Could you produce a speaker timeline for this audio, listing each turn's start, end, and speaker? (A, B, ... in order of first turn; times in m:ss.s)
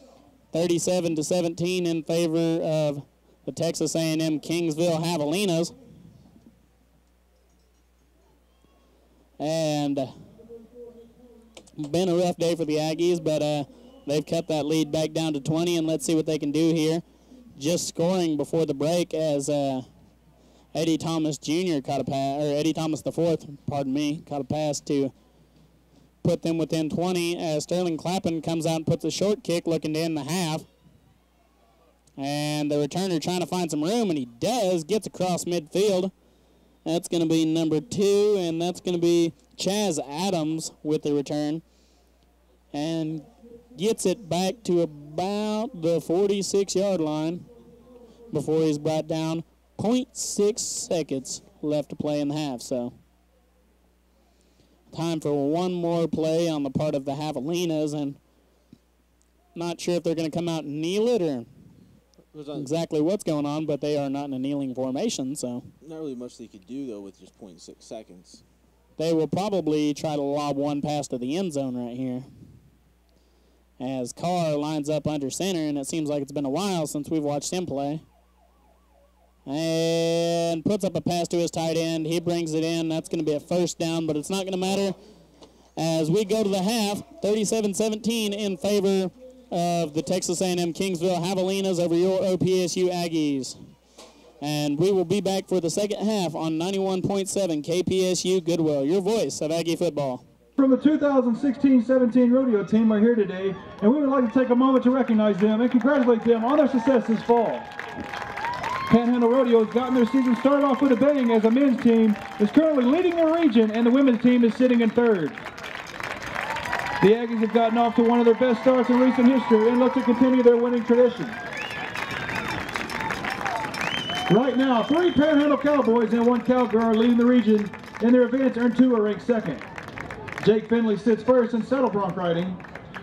0:00.5-0:05.7 A
0:09.4-0:10.1 A
0:11.8-0:17.0 A
0:17.6-0:19.8 A
0:20.7-0:25.1 A
0:26.2-0:30.7 A
0:32.2-0:36.1 A
0:36.8-0:41.6 A
0:42.7-0:47.4 A
0:48.3-0:52.9 A
0:54.9-0:58.2 A
0:59.5-1:01.5 A
1:02.3-1:02.7 B
1:02.6-1:05.7 A
1:05.8-1:08.4 B
1:09.0-1:12.3 A
1:13.8-1:18.0 A
1:19.4-1:25.0 A
1:25.8-1:33.6 A
1:34.4-1:40.2 A
1:40.6-1:47.7 C
1:48.9-1:55.4 C
1:57.0-2:01.4 C
2:04.3-2:09.6 C
2:10.4-2:12.6 C